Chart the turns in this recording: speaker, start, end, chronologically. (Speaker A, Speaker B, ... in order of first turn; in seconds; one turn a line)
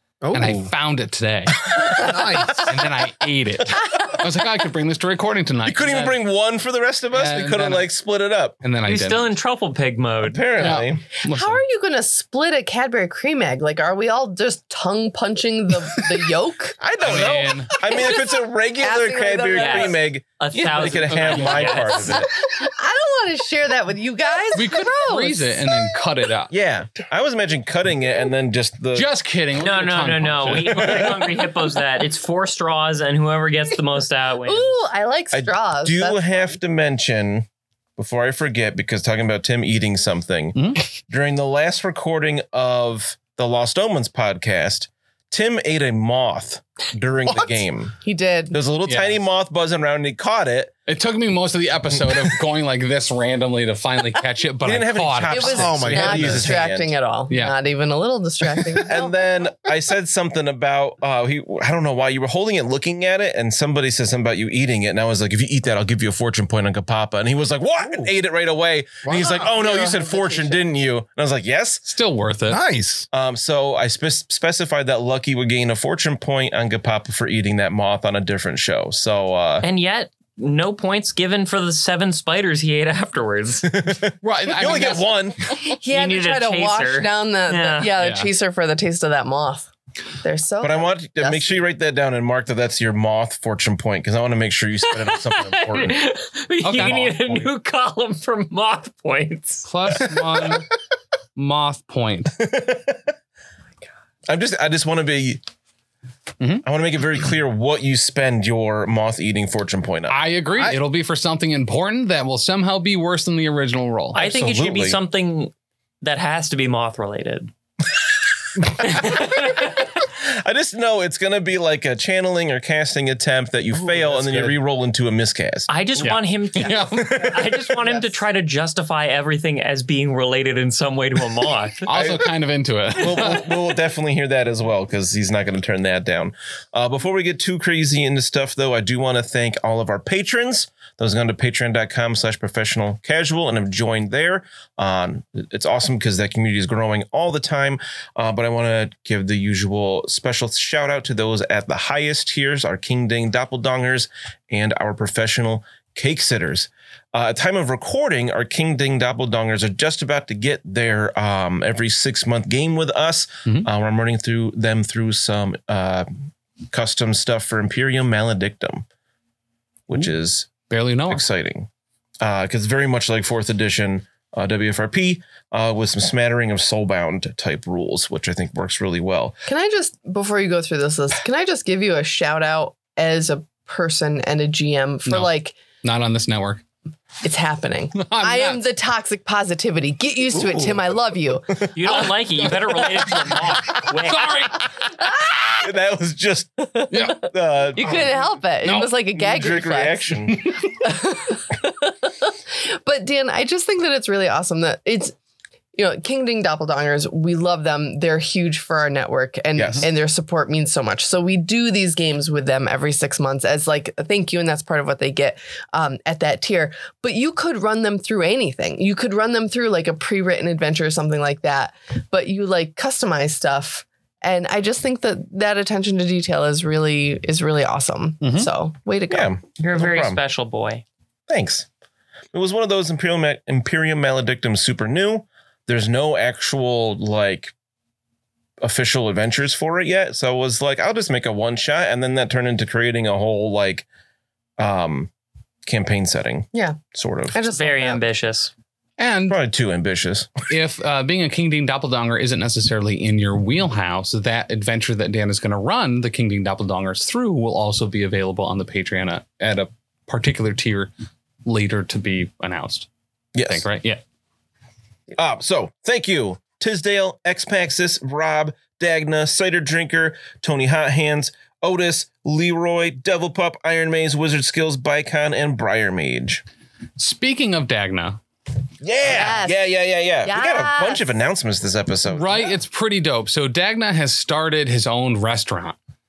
Speaker A: 0.2-0.7
Speaker B: 0.3-6.2
Speaker A: 1.9-2.6
Speaker C: 5.6-8.6
Speaker B: 7.1-7.9
Speaker B: 8.6-9.3
Speaker D: 8.8-10.4
Speaker C: 10.2-11.0
Speaker B: 10.6-11.6
Speaker E: 11.2-16.8
Speaker C: 16.8-22.3
Speaker B: 17.0-17.7
Speaker E: 17.8-20.0
Speaker D: 19.5-22.2
Speaker B: 20.5-22.0
Speaker E: 22.5-26.0
Speaker B: 24.5-26.5
Speaker C: 26.5-29.1
Speaker B: 28.9-31.3
Speaker D: 29.6-34.8
Speaker C: 30.8-31.1
Speaker E: 34.4-36.5
Speaker C: 35.3-37.5
Speaker C: 38.0-40.6
Speaker B: 40.5-40.8
Speaker C: 41.1-48.0
Speaker A: 47.2-47.6
Speaker E: 48.0-48.6
Speaker C: 48.5-50.7
Speaker B: 48.8-49.2
Speaker B: 50.9-56.6
Speaker C: 54.6-56.9
Speaker E: 55.3-59.1
Speaker A: 55.5-56.5
Speaker B: 57.3-57.5
Speaker C: 58.8-71.8
Speaker A: 69.1-69.3
Speaker E: 69.1-70.6
Speaker B: 71.8-72.6
Speaker A: 72.5-73.1
Speaker C: 73.1-79.7
Speaker D: 79.6-83.8
Speaker C: 83.6-85.5
Speaker B: 84.2-85.3
Speaker E: 85.6-89.7
Speaker D: 85.9-87.9
Speaker B: 88.0-88.3
Speaker E: 90.2-91.6
Speaker C: 90.6-96.0
Speaker D: 94.9-99.7
Speaker B: 96.6-97.3
Speaker C: 96.8-97.4
Speaker B: 99.6-100.7
Speaker B: 101.3-102.4
Speaker C: 102.4-103.1
Speaker C: 104.3-105.4
Speaker C: 106.6-110.2
Speaker B: 110.1-114.2
Speaker D: 114.1-117.5
Speaker C: 114.1-115.0
Speaker C: 118.7-125.7
Speaker D: 118.9-119.3
Speaker A: 123.7-124.5
Speaker D: 125.7-131.9
Speaker B: 126.0-127.5
Speaker C: 127.0-127.4
Speaker B: 131.8-133.5
Speaker C: 133.0-168.8
Speaker C: 169.9-170.5
Speaker B: 170.7-171.2
Speaker C: 171.1-171.7
Speaker C: 172.2-179.4
Speaker E: 179.5-185.6
Speaker B: 185.1-186.6
Speaker E: 187.2-192.2
Speaker B: 187.9-188.6
Speaker D: 191.7-194.3
Speaker B: 194.0-194.7
Speaker E: 195.0-195.6
Speaker C: 195.6-200.6
Speaker E: 196.7-205.1
Speaker B: 196.9-198.1
Speaker B: 198.6-198.9
Speaker E: 205.7-229.3
Speaker C: 209.6-209.9
Speaker B: 228.2-228.5
Speaker C: 229.1-230.2
Speaker D: 229.6-230.8
Speaker C: 231.3-231.7
Speaker C: 232.3-237.5
Speaker C: 238.6-243.8
Speaker C: 244.6-245.1
Speaker C: 245.7-247.4
Speaker E: 246.5-246.8
Speaker E: 247.3-248.0
Speaker D: 247.5-248.5
Speaker B: 249.0-249.4
Speaker C: 249.3-250.3
Speaker B: 250.5-260.9
Speaker B: 261.4-262.9
Speaker C: 263.3-263.6
Speaker B: 263.5-264.0
Speaker C: 265.1-276.4
Speaker B: 277.0-278.2
Speaker C: 278.8-282.5
Speaker E: 279.0-279.7
Speaker E: 280.2-281.0
Speaker B: 282.1-285.8